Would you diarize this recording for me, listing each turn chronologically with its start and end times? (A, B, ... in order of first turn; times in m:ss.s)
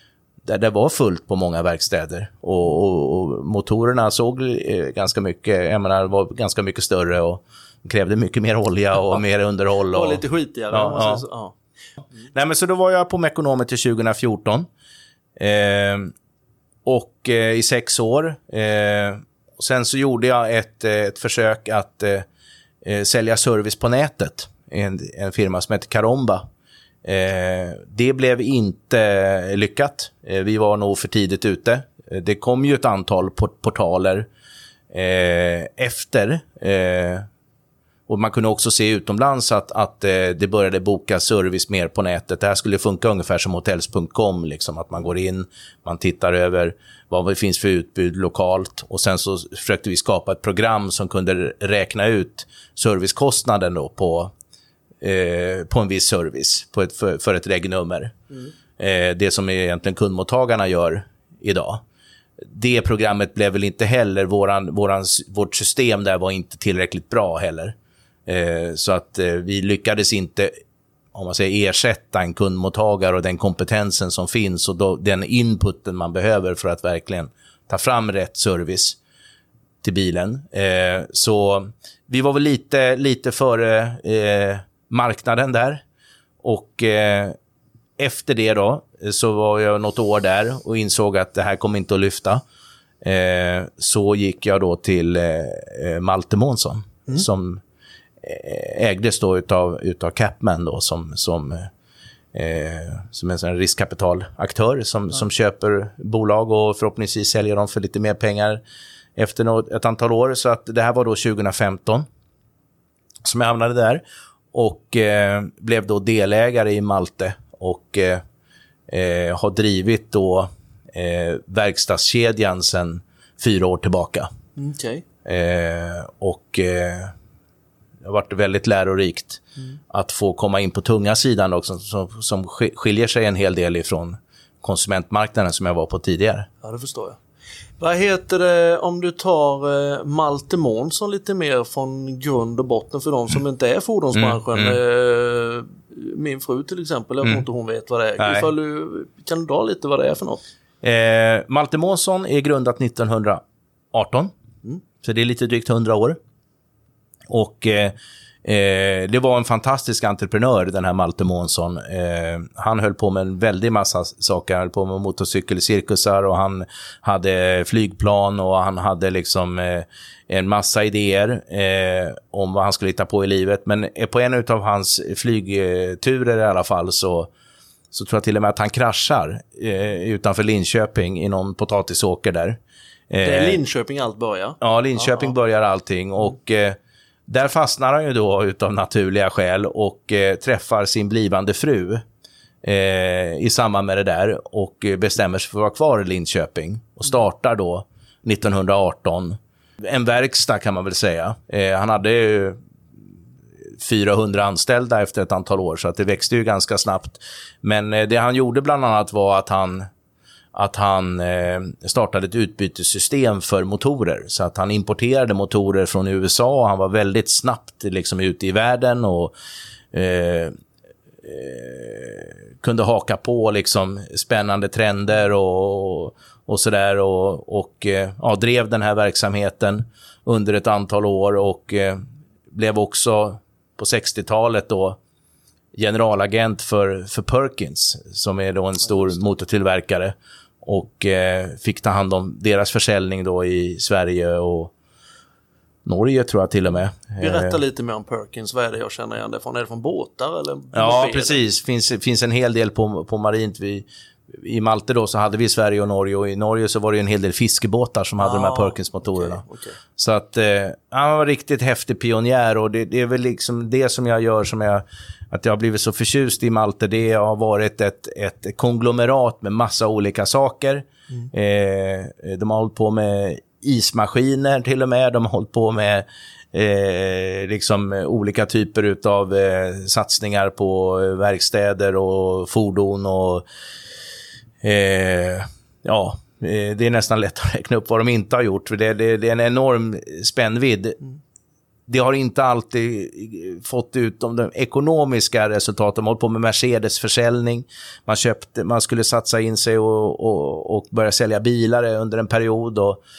0:00.4-0:11.2 A
0:09.9-0:11.6 B
0:12.3-0:14.7 A
0:15.4-0:16.1 A
0:16.8-0:22.2 A
0:22.8-0:26.4 A
0:27.0-0:34.3 A
0:34.9-0:37.3 A
0:38.1-0:54.3 A
0:55.0-0:58.2 A
0:58.8-1:01.8 A
1:02.4-1:07.7 A
1:08.2-1:10.5 A
1:11.1-1:19.0 A
1:19.8-1:25.8 A
1:26.4-1:27.4 A
1:28.0-1:32.4 A
1:33.0-1:37.6 A
1:38.2-1:41.7 A
1:42.3-1:48.6 A
1:49.2-1:52.0 A
1:53.2-1:58.2 A
1:58.9-2:04.3 A
2:04.6-2:05.0 B
2:05.2-2:07.1 A
2:08.0-2:16.5 A
2:16.6-2:17.2 B
2:17.8-2:30.4 B
2:24.1-2:24.8 A
2:28.2-2:28.5 A
2:30.8-2:34.3 A
2:35.0-2:36.2 A
2:37.3-2:57.3 A
2:57.9-3:02.6 A
3:03.1-3:03.6 A
3:03.2-3:05.2 B
3:04.6-3:12.0 A
3:12.6-3:22.6 A
3:23.8-3:29.8 A
3:30.5-3:39.3 A
3:39.9-3:40.5 A
3:41.2-3:55.0 A
3:55.7-4:04.7 A
4:05.8-4:07.6 A
4:07.2-4:11.4 B
4:10.7-4:19.4 A
4:18.2-4:19.8 B
4:20.0-4:43.4 A
4:44.6-4:51.0 A
4:51.9-5:03.0 A